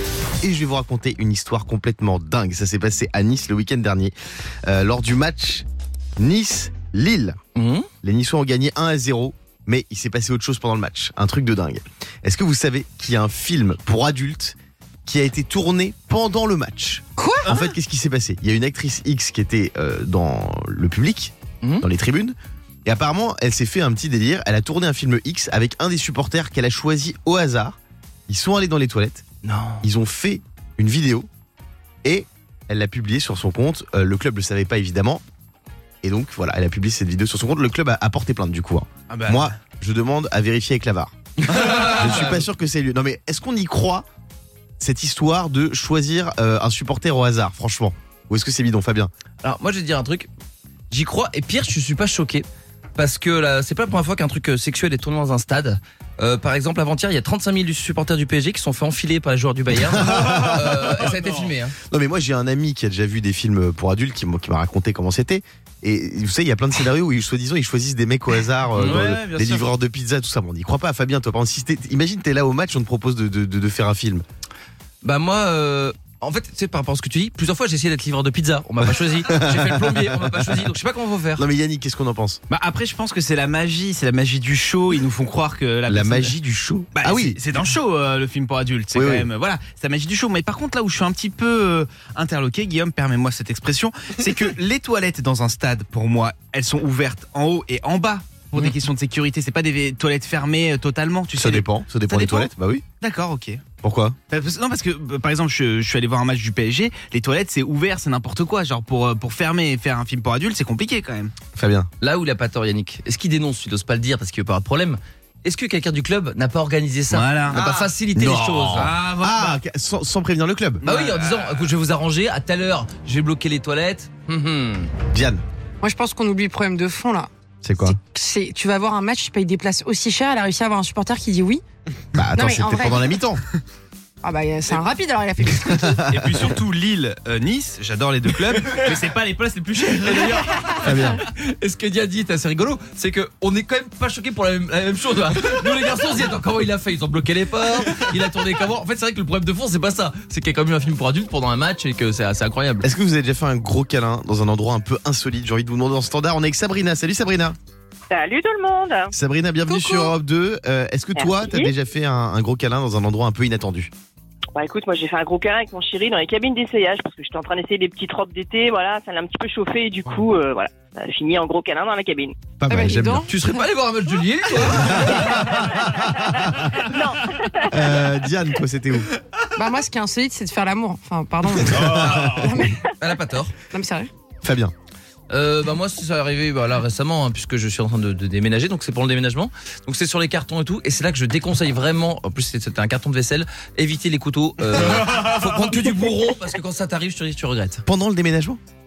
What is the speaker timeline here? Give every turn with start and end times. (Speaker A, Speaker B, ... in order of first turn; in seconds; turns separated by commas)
Speaker A: 0.4-4.1, Speaker A: 4.7-5.7, Speaker A: 6.2-7.4, Speaker B: 7.5-7.9, Speaker A: 8.0-22.3, Speaker C: 17.2-17.5, Speaker A: 22.9-27.7, Speaker A: 28.3-29.2, Speaker B: 29.4-29.8, Speaker A: 29.8-31.3, Speaker A: 32.0-35.2, Speaker A: 36.0-44.0, Speaker D: 39.1-39.5, Speaker B: 41.5-42.4, Speaker A: 44.8-49.1, Speaker B: 49.4-50.3, Speaker B: 50.9-61.8, Speaker A: 59.7-61.1, Speaker A: 61.9-74.2, Speaker B: 68.8-69.7, Speaker B: 75.0-81.5, Speaker A: 79.2-80.7, Speaker A: 81.4-82.4, Speaker D: 82.5-86.3, Speaker A: 85.9-87.4, Speaker D: 86.9-102.5, Speaker A: 88.9-89.3, Speaker A: 101.4-102.8, Speaker D: 103.0-103.6, Speaker A: 103.8-104.2, Speaker D: 104.3-111.3, Speaker A: 111.5-111.9, Speaker B: 112.0-118.9, Speaker D: 117.1-117.9, Speaker A: 118.1-120.8, Speaker D: 118.7-119.6, Speaker D: 120.8-121.7, Speaker B: 120.8-124.9, Speaker A: 125.1-125.4, Speaker C: 125.8-127.3, Speaker A: 127.6-128.0, Speaker C: 127.9-131.6, Speaker A: 132.1-133.4, Speaker C: 132.3-133.1, Speaker C: 134.2-136.0, Speaker A: 135.7-136.3, Speaker D: 135.8-140.7, Speaker B: 140.0-152.9, Speaker A: 140.8-141.2, Speaker A: 152.8-157.6, Speaker E: 158.1-159.1, Speaker A: 159.1-163.9, Speaker C: 159.7-160.1, Speaker E: 161.2-161.7, Speaker E: 164.5-172.5, Speaker A: 172.6-173.3, Speaker C: 172.7-173.3, Speaker B: 173.3-175.7, Speaker A: 174.7-176.8, Speaker E: 176.9-177.8, Speaker A: 177.7-179.1, Speaker C: 179.6-182.8, Speaker A: 181.7-182.4, Speaker B: 182.0-182.3, Speaker B: 182.9-183.6, Speaker C: 183.7-184.1, Speaker A: 184.4-184.7, Speaker B: 185.3-197.8, Speaker A: 197.8-198.6